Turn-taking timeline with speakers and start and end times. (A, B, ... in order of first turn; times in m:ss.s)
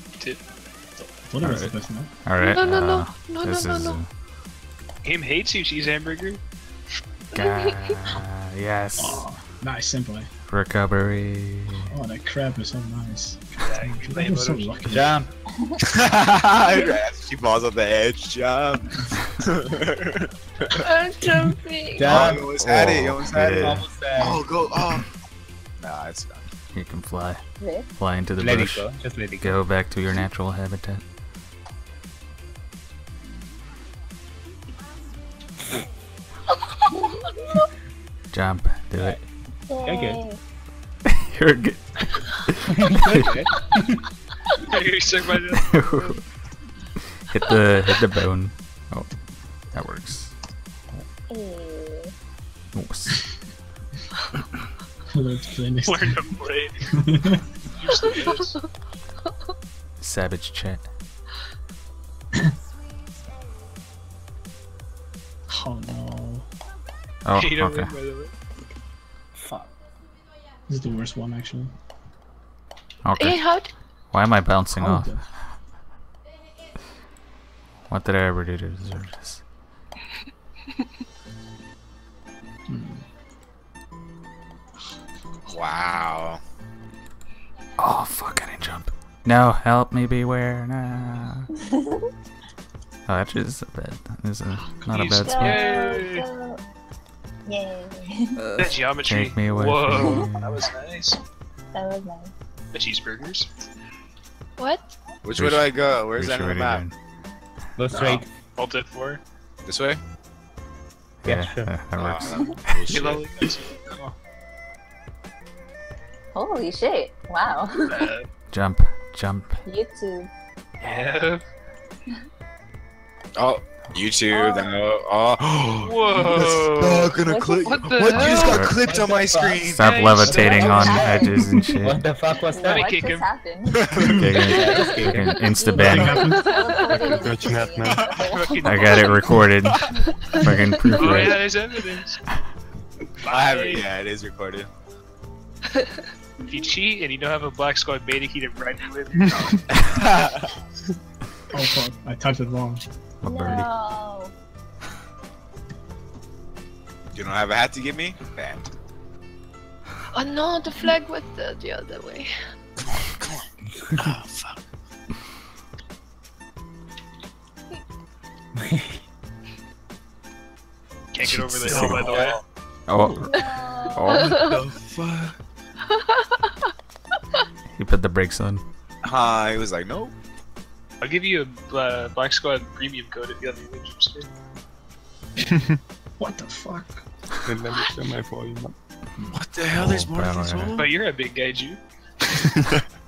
0:01.0-0:02.1 A
0:01.4-0:04.1 B
0:02.4-0:04.0 C
0:05.0-0:06.4 D
0:07.3-0:09.3 B
0:07.3-0:08.0 C
0:09.0-0:10.3 A
0:10.5-0:11.9 B
0:11.9-0:15.2 A
0:13.6-0:15.2 D
0:14.9-0:15.3 E
0:15.8-0:20.9 F
0:16.7-0:17.0 C
0:20.8-0:22.2 C
0:21.9-0:22.5 E
0:22.0-0:25.1 F
0:22.1-0:23.8 B
0:23.4-0:24.5 E
0:25.8-0:26.5 F
0:26.7-0:27.4 B
0:27.6-0:27.9 G
0:28.0-0:28.9 B
0:28.4-0:29.6 E
0:29.4-0:31.0 B
0:36.5-0:37.6 C
0:38.3-0:39.2 B
0:39.7-0:40.4 G
0:39.8-0:40.2 E
0:41.1-0:43.3 B
0:42.8-0:44.0 E
0:44.7-0:46.2 D
0:45.7-0:46.2 B
0:47.1-0:49.2 B
0:49.7-0:50.4 B
0:51.3-0:52.1 G
0:52.7-0:53.2 B
0:55.1-0:56.4 A
0:55.8-0:57.0 D
0:56.9-0:57.4 A
0:57.7-0:58.6 D
0:58.2-0:58.7 C
1:00.0-1:00.9 B
1:05.5-1:06.5 A
1:07.2-1:07.9 B
1:07.3-1:08.3 D
1:09.4-1:09.7 E
1:10.7-1:11.7 A
1:13.0-1:13.4 B
1:13.2-1:13.7 C
1:14.1-1:15.3 B
1:14.8-1:15.3 A
1:17.9-1:19.4 B
1:22.7-1:23.1 A
1:25.5-1:26.4 F
1:27.8-1:31.5 B
1:33.1-1:35.6 B
1:34.9-1:36.2 D
1:35.1-1:36.6 G
1:37.4-1:38.4 G
1:38.4-1:40.6 B
1:38.6-1:41.2 D
1:39.9-1:40.3 G
1:41.7-1:42.3 G
1:42.7-1:43.5 D
1:44.6-1:44.9 C
1:45.2-1:46.8 F
1:45.3-1:46.9 B
1:47.8-1:48.3 E
1:48.6-1:49.2 D
1:49.6-1:50.0 F
1:51.2-1:53.1 B
1:51.2-1:51.7 E
1:51.9-1:53.3 F
1:52.9-1:54.1 D
1:56.3-1:58.2 G
1:57.8-1:58.2 D
1:58.5-1:59.6 B
1:59.6-2:00.3 G
2:00.8-2:01.4 D
2:03.4-2:09.8 F
2:04.3-2:04.8 G
2:05.8-2:08.7 D
2:07.2-2:07.7 G
2:08.1-2:08.8 B
2:08.7-2:09.8 E
2:09.7-2:12.1 B
2:09.8-2:10.7 D
2:10.3-2:12.9 E
2:10.3-2:11.7 G
2:12.3-2:19.1 G
2:12.6-2:13.3 D
2:13.7-2:14.3 F
2:14.2-2:16.2 B
2:14.5-2:15.4 E
2:15.7-2:16.5 A
2:15.9-2:16.3 F
2:16.2-2:17.1 C
2:17.0-2:18.1 H
2:17.8-2:18.2 F
2:18.1-2:19.2 D
2:18.6-2:21.4 B
2:19.6-2:20.0 F
2:20.1-2:20.5 G
2:21.0-2:22.2 D
2:23.2-2:23.9 D
2:23.2-2:24.7 F
2:25.7-2:26.0 C
2:26.4-2:26.7 G
2:26.4-2:29.6 D
2:29.2-2:29.5 H
2:29.7-2:30.5 F
2:31.5-2:32.8 A
2:33.2-2:33.7 B
2:33.2-2:34.3 G
2:37.1-2:38.7 F
2:40.1-2:42.3 C
2:42.8-2:44.6 F
2:48.5-2:49.0 E
2:51.1-2:52.4 D
2:51.2-2:52.2 B
2:51.6-2:52.4 F
2:52.9-2:53.4 B
2:53.0-2:53.2 E
2:53.3-2:54.2 G
2:53.9-2:54.4 B
2:54.1-2:55.4 F
2:54.2-2:54.6 C
2:55.9-2:56.7 C
2:57.7-2:58.6 B
2:59.0-3:00.1 F
3:01.0-3:04.3 D
3:05.5-3:05.8 H
3:06.2-3:07.0 A
3:07.4-3:08.8 H
3:09.3-3:10.9 F
3:09.7-3:10.8 B
3:10.8-3:11.8 D
3:12.4-3:12.8 H